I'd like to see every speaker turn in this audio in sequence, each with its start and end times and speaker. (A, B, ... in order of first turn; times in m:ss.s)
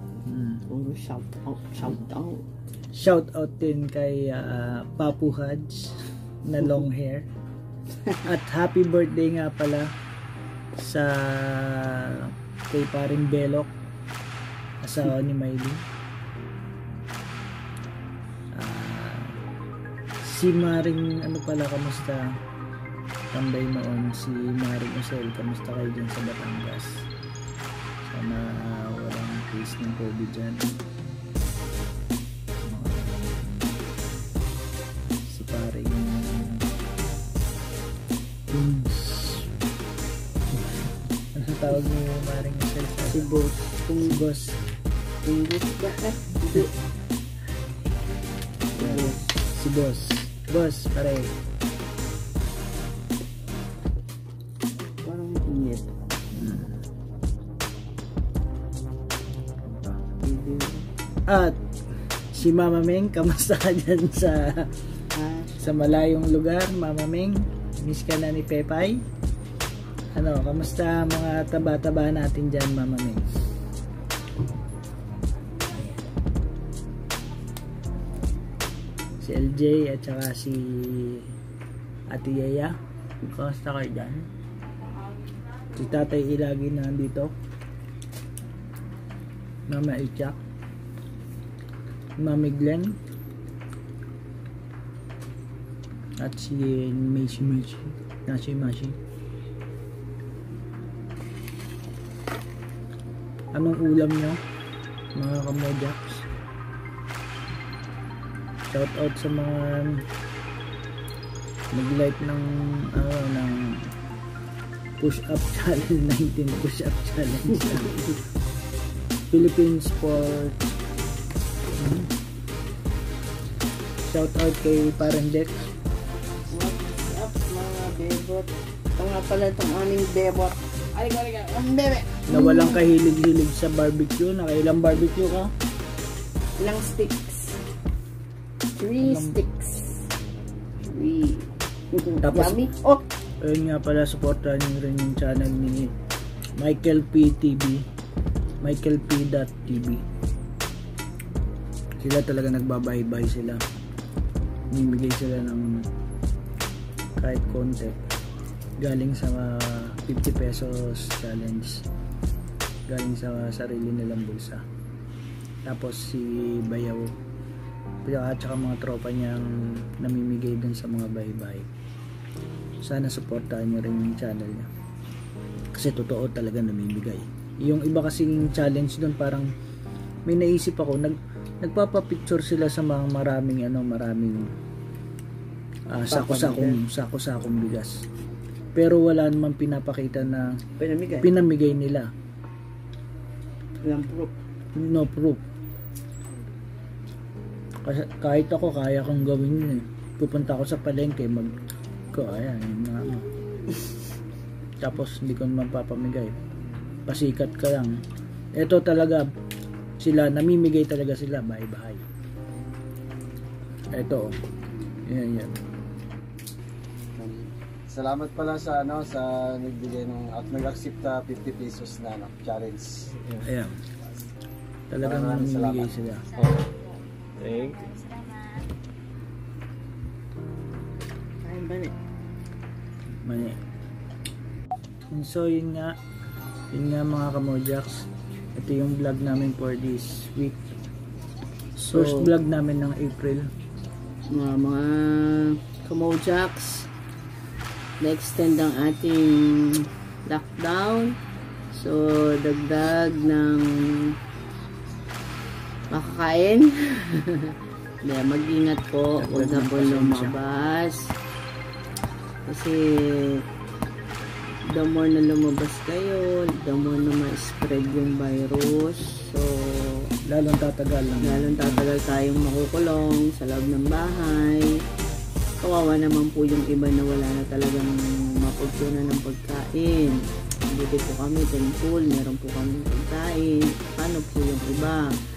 0:00.2-0:00.6 A
0:00.7-0:02.4 B
0:02.9-0:07.3 A
0:08.2-0:09.9 A
0:10.8-0:13.7 A
0:14.8-0:15.8 A
0:18.6-0:19.4 A
0:20.2-0:22.3 A
0:23.3-0:27.1 A
0:28.0-0:30.6 A
0:32.7-0:33.8 A
0:35.2-0:36.7 A
0:38.5-0:39.5 A
0:40.6-0:43.3 A
0:43.1-0:44.2 B
0:44.0-0:44.6 A
0:45.2-0:46.7 B
0:48.7-0:49.3 B
0:48.8-0:51.3 A
0:54.9-0:56.2 B
0:56.3-0:56.8 A
1:00.2-1:00.9 B
1:01.3-1:01.6 A
1:02.2-1:04.7 A
1:05.2-1:06.1 B
1:05.6-1:09.0 A
1:10.1-1:13.4 A
1:15.7-1:16.0 A
1:19.2-1:21.3 A
1:22.1-1:22.8 A
1:23.3-1:24.3 A
1:25.7-1:27.3 A
1:29.7-1:30.4 A
1:32.2-1:32.9 A
1:36.2-1:39.0 A
1:43.5-1:44.4 A
1:45.2-1:46.3 A
1:48.7-1:50.0 A
1:51.7-1:53.9 A
1:55.0-1:58.2 A
1:59.3-2:00.7 A
2:01.8-2:02.1 A
2:04.1-2:05.6 A
2:06.5-2:12.9 B
2:12.3-2:15.5 A
2:16.6-2:17.6 B
2:18.8-2:20.1 B
2:19.0-2:19.4 A
2:20.8-2:23.0 B
2:22.2-2:22.6 A
2:23.4-2:25.9 A
2:26.6-2:27.8 A
2:28.6-2:30.0 A
2:32.0-2:33.6 A
2:34.7-2:35.8 A
2:37.2-2:38.0 A
2:38.8-2:41.8 A
2:42.9-2:44.6 A
2:45.6-2:47.1 A
2:48.0-2:51.7 A
2:52.8-2:54.7 A
2:55.8-2:59.5 A
3:00.3-3:04.4 A
3:05.9-3:08.0 A
3:06.1-3:06.8 B
3:08.8-3:10.6 A
3:10.8-3:11.3 B
3:11.2-3:12.1 A
3:13.8-3:14.3 B
3:14.8-3:15.4 A
3:17.8-3:21.5 A
3:22.1-3:23.3 A
3:24.8-3:26.4 A
3:27.1-3:27.9 A
3:28.6-3:29.3 A
3:30.0-3:32.0 A
3:33.9-3:34.3 A
3:35.1-3:35.6 A
3:37.2-3:43.5 C
3:43.4-3:43.8 A
3:44.9-3:46.2 A
3:45.0-3:46.6 C
3:47.4-3:48.0 C
3:51.4-3:52.0 B
3:53.2-3:53.6 A
3:55.1-3:55.9 A
3:56.7-4:00.7 A
4:01.8-4:03.5 A
4:01.9-4:02.3 B
4:04.3-4:06.9 B
4:08.0-4:11.1 B
4:11.7-4:13.7 B
4:15.9-4:21.1 B
4:19.2-4:20.4 A
4:22.5-4:23.4 B
4:24.7-4:30.1 B
4:30.2-4:31.9 A
4:31.2-4:34.7 B
4:35.6-4:45.1 B